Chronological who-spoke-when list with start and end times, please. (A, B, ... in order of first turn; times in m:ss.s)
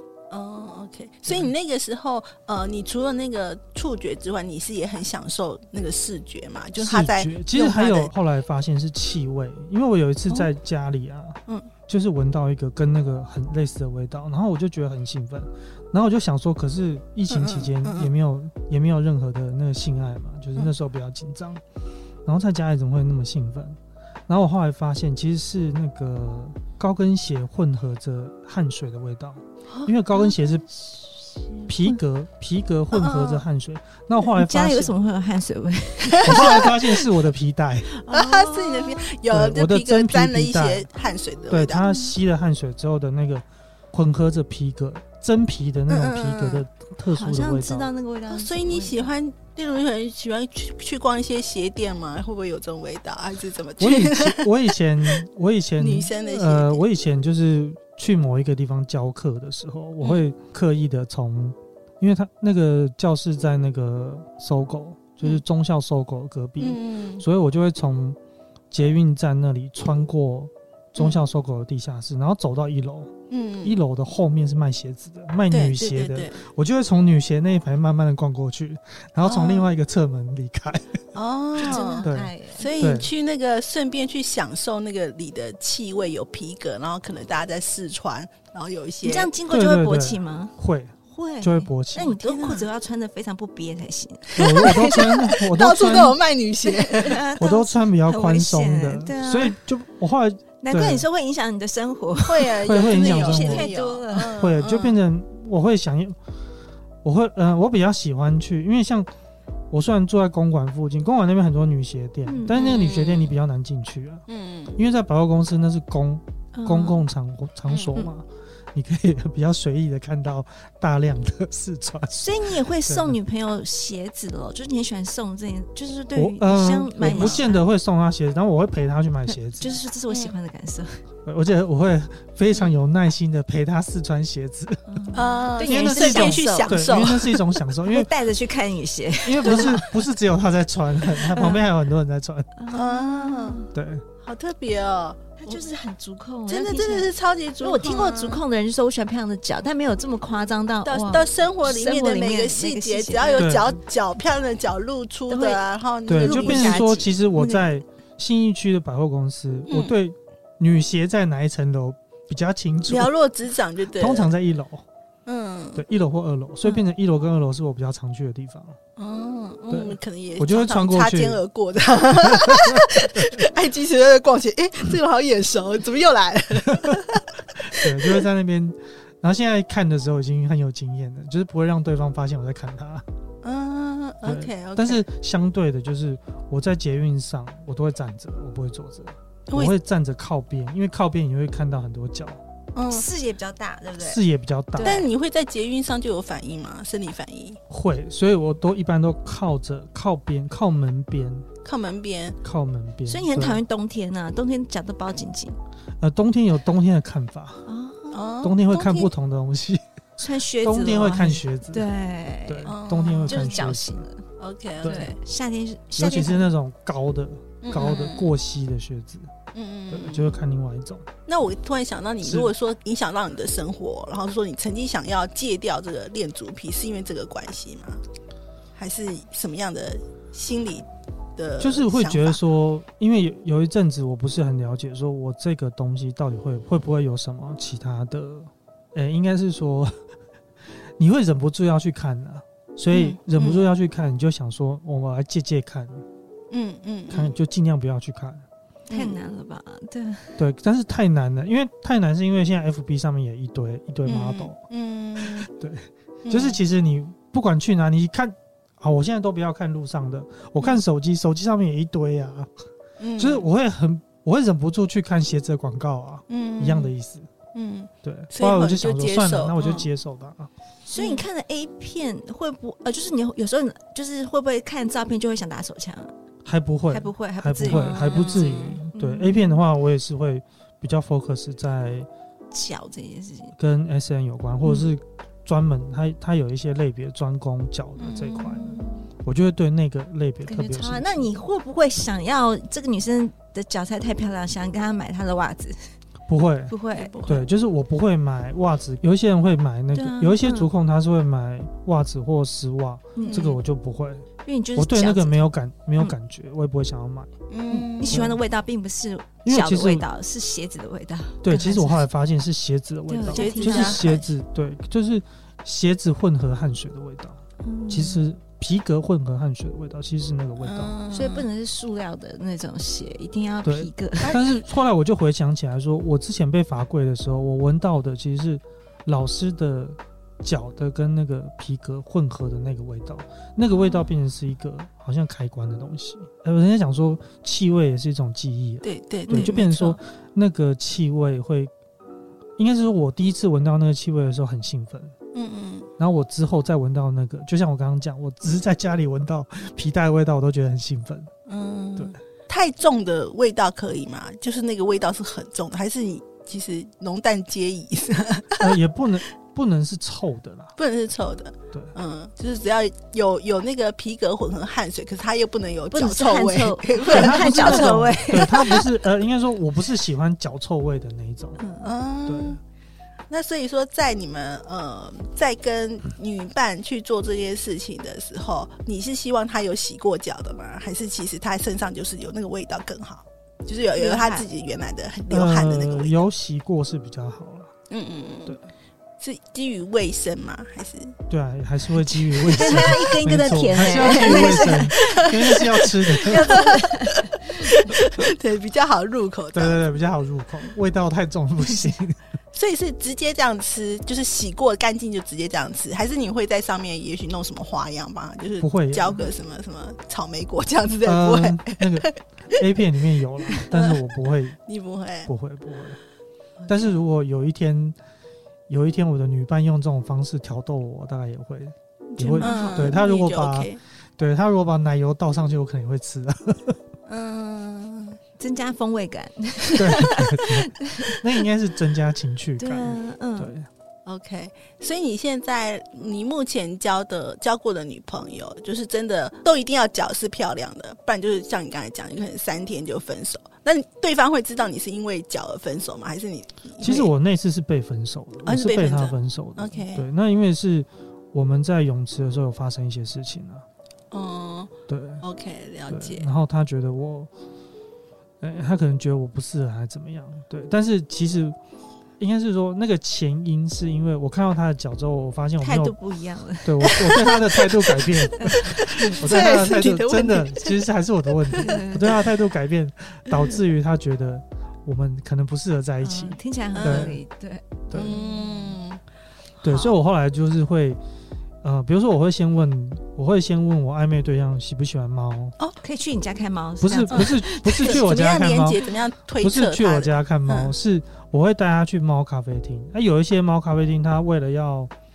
0:00.3-0:08.1 A
0:01.3-0:01.5 B
0:06.8-0:21.6 B
0:17.3-0:18.1 A
0:22.2-0:30.7 B
0:31.2-0:32.0 C
0:31.7-0:34.9 B
0:32.9-0:33.4 A
0:34.3-0:36.8 C
0:36.2-0:37.9 B
0:36.3-0:36.7 A
0:38.0-0:39.2 C
0:38.1-0:42.1 A
0:39.3-0:40.9 B
0:41.5-0:47.9 B
0:45.9-0:46.6 A
0:47.1-0:49.1 C
0:48.3-0:55.2 A
0:53.8-1:08.2 B
0:55.8-0:56.8 A
1:00.0-1:00.2 A
1:06.6-1:07.2 A
1:08.7-1:21.0 B
1:13.3-1:13.8 A
1:15.5-1:16.4 A
1:19.2-1:19.7 A
1:21.1-1:29.3 A
1:21.6-1:22.7 C
1:21.7-1:23.1 B
1:29.0-1:30.5 C
1:29.5-1:32.1 B
1:31.1-1:35.0 C
1:32.2-1:32.7 A
1:34.4-1:36.2 B
1:34.4-1:37.2 A
1:36.6-1:39.6 C
1:37.4-1:41.0 B
1:40.6-1:44.4 C
1:42.2-1:45.0 A
1:42.6-1:43.7 B
1:44.4-1:46.2 B
1:47.0-1:49.1 B
1:49.7-1:54.2 B
1:52.2-1:53.2 C
1:52.5-1:53.3 A
1:54.3-1:54.8 A
1:54.8-2:02.2 B
1:56.5-1:57.0 C
2:02.1-2:07.6 C
2:02.9-2:03.2 B
2:06.2-2:09.8 B
2:07.1-2:07.4 A
2:09.3-2:11.0 C
2:10.1-2:10.4 A
2:11.2-2:14.8 B
2:14.9-2:16.9 C
2:15.1-2:17.4 A
2:15.6-2:18.1 B
2:17.9-2:19.9 C
2:19.2-2:22.5 B
2:19.4-2:19.8 A
2:21.3-2:21.6 C
2:22.6-2:23.7 C
2:22.7-2:23.6 A
2:23.7-2:24.0 B
2:24.2-2:25.7 A
2:25.4-2:33.7 C
2:26.5-2:28.4 A
2:30.8-2:37.0 A
2:33.4-2:33.7 B
2:35.3-2:37.6 C
2:36.1-2:43.1 B
2:39.7-2:39.9 A
2:42.9-2:44.3 A
2:43.9-2:44.8 B
2:45.2-2:45.8 A
2:45.8-2:48.8 B
2:49.0-2:58.2 A
2:49.7-2:51.4 B
2:52.3-2:53.3 B
2:57.7-3:03.0 B
3:03.4-3:05.0 A
3:04.2-3:12.4 B
3:09.5-3:09.8 A
3:12.8-3:13.0 A
3:12.9-3:14.2 C
3:14.0-3:15.0 B
3:14.8-3:15.0 C
3:14.8-3:17.6 A
3:17.7-3:21.5 B
3:21.6-3:22.4 A
3:22.4-3:23.6 B
3:23.1-3:25.6 C
3:26.0-3:27.6 B
3:27.6-3:28.3 C
3:28.1-3:29.1 A
3:28.4-3:29.8 B
3:30.2-3:32.8 C
3:30.6-3:31.9 B
3:32.5-3:34.0 B
3:32.6-3:33.8 A
3:33.3-3:34.2 C
3:34.4-3:35.2 A
3:34.8-3:36.5 C
3:36.0-3:39.3 B
3:37.6-3:38.3 A
3:37.8-3:38.0 C
3:39.5-3:40.4 A
3:39.9-3:41.0 B
3:41.2-3:48.0 A
3:42.2-3:42.5 B
3:48.8-3:52.4 A
3:51.6-4:00.0 B
4:01.0-4:06.0 B
4:02.9-4:03.6 A
4:06.5-4:07.4 A
4:07.1-4:08.4 B
4:08.9-4:09.2 A
4:08.9-4:10.4 C
4:10.4-4:14.6 B
4:14.0-4:15.5 A
4:15.5-4:22.5 B
4:16.2-4:16.6 A
4:23.0-4:23.5 A
4:23.2-4:27.3 B
4:26.3-4:26.9 A
4:27.5-4:29.9 A
4:28.0-4:30.5 B
4:30.9-4:36.1 C
4:31.0-4:31.2 A
4:36.4-4:42.1 B
4:36.9-4:39.6 C
4:37.6-4:38.8 A
4:42.5-4:43.5 C
4:43.6-4:51.4 B
4:48.0-4:48.8 A
4:48.7-4:49.0 C
4:50.4-4:55.8 C
4:56.3-4:56.7 B
4:56.7-4:57.3 C
4:56.9-4:57.4 A
4:57.2-5:07.3 B
4:59.9-5:00.7 C
5:03.2-5:03.5 C
5:03.2-5:03.6 A
5:04.4-5:06.1 C
5:07.5-5:08.3 A
5:07.7-5:12.1 C
5:08.0-5:08.4 B
5:09.4-5:10.0 B
5:11.4-5:21.0 B
5:13.1-5:14.2 C
5:13.3-5:14.3 A
5:17.6-5:18.2 C
5:20.6-5:21.5 A
5:21.1-5:24.4 C
5:23.6-5:41.7 B
5:38.8-5:40.0 A
5:39.3-5:39.6 C
5:42.6-5:45.1 B
5:45.3-5:45.9 A
5:46.0-5:51.3 B
5:51.5-5:58.7 A
5:58.6-6:00.7 B
6:00.8-6:08.4 A
6:05.9-6:08.9 C
6:07.0-6:11.6 B
6:11.6-6:11.9 C
6:11.8-6:12.6 A
6:12.3-6:12.6 B
6:13.3-6:26.1 A
6:23.9-6:24.4 C
6:25.3-6:27.7 B
6:27.9-6:28.6 A
6:29.2-6:31.1 A
6:31.3-6:36.7 B
6:32.3-6:37.8 C
6:33.8-6:39.8 A
6:39.5-6:42.2 B
6:42.5-6:52.6 A
6:48.6-6:49.3 B
6:51.0-6:54.6 B
6:53.5-6:54.0 A
6:54.6-6:55.3 A
6:55.2-6:56.0 B
6:56.7-6:58.0 B
6:58.7-7:06.8 B
7:02.1-7:02.9 C
7:02.4-7:03.8 A
7:07.1-7:08.2 A
7:08.4-7:11.3 C
7:09.8-7:13.7 B
7:12.6-7:13.5 C
7:14.1-7:27.1 A
7:26.8-7:33.6 B
7:28.4-7:30.0 A
7:34.1-7:36.3 A
7:34.9-7:35.2 B
7:35.9-7:37.3 B
7:38.4-7:41.6 B
7:42.2-7:45.9 B
7:45.6-7:47.4 C
7:46.6-7:57.1 B
7:48.0-7:50.7 A
7:48.4-7:49.7 C
7:51.5-7:51.8 A
7:51.6-7:52.2 C
7:56.0-7:58.2 C
7:56.7-7:57.2 A
7:57.9-7:58.2 B
7:57.9-7:59.0 A
7:59.6-8:00.0 A
7:59.6-8:01.0 B
8:01.6-8:05.6 B
8:05.8-8:08.0 C
8:06.8-8:08.8 B
8:07.1-8:10.7 A
8:09.4-8:14.9 B